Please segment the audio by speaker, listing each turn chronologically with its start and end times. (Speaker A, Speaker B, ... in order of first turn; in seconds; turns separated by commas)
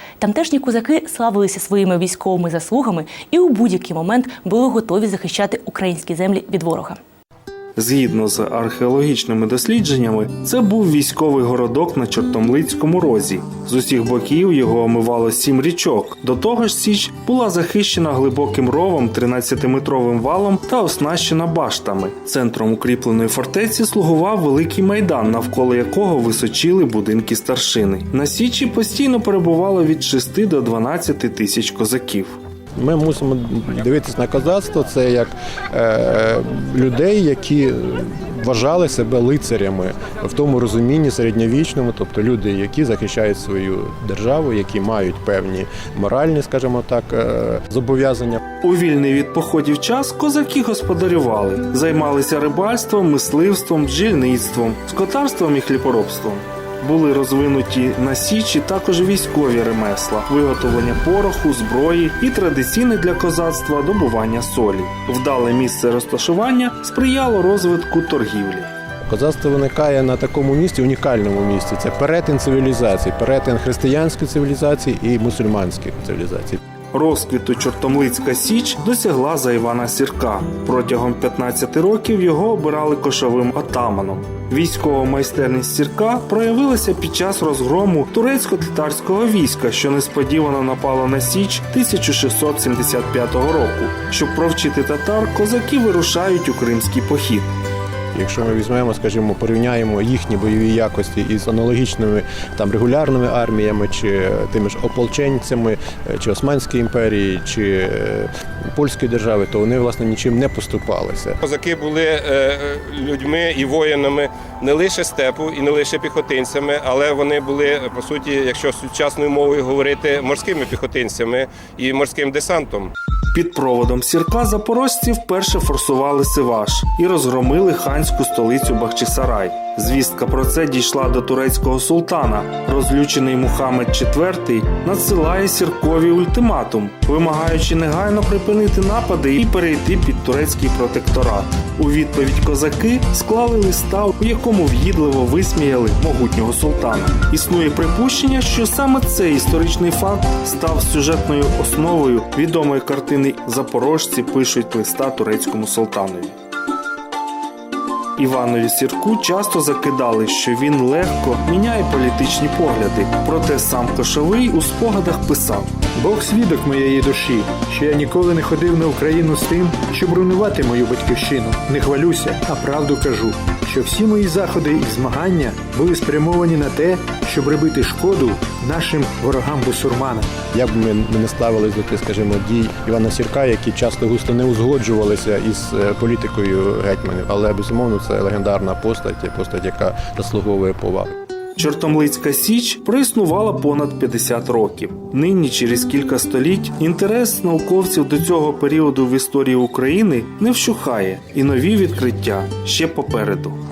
Speaker A: 0.2-7.0, Speaker B: 7.8-32.4, Speaker C: 32.8-48.4, Speaker B: 48.6-68.7, Speaker C: 69.0-76.6, Speaker B: 76.9-97.5, Speaker C: 98.1-111.4, Speaker D: 111.4-122.9, Speaker B: 123.3-156.3, Speaker B: 158.2-165.7, Speaker E: 166.0-180.3, Speaker C: 180.5-191.1, Speaker B: 191.6-203.6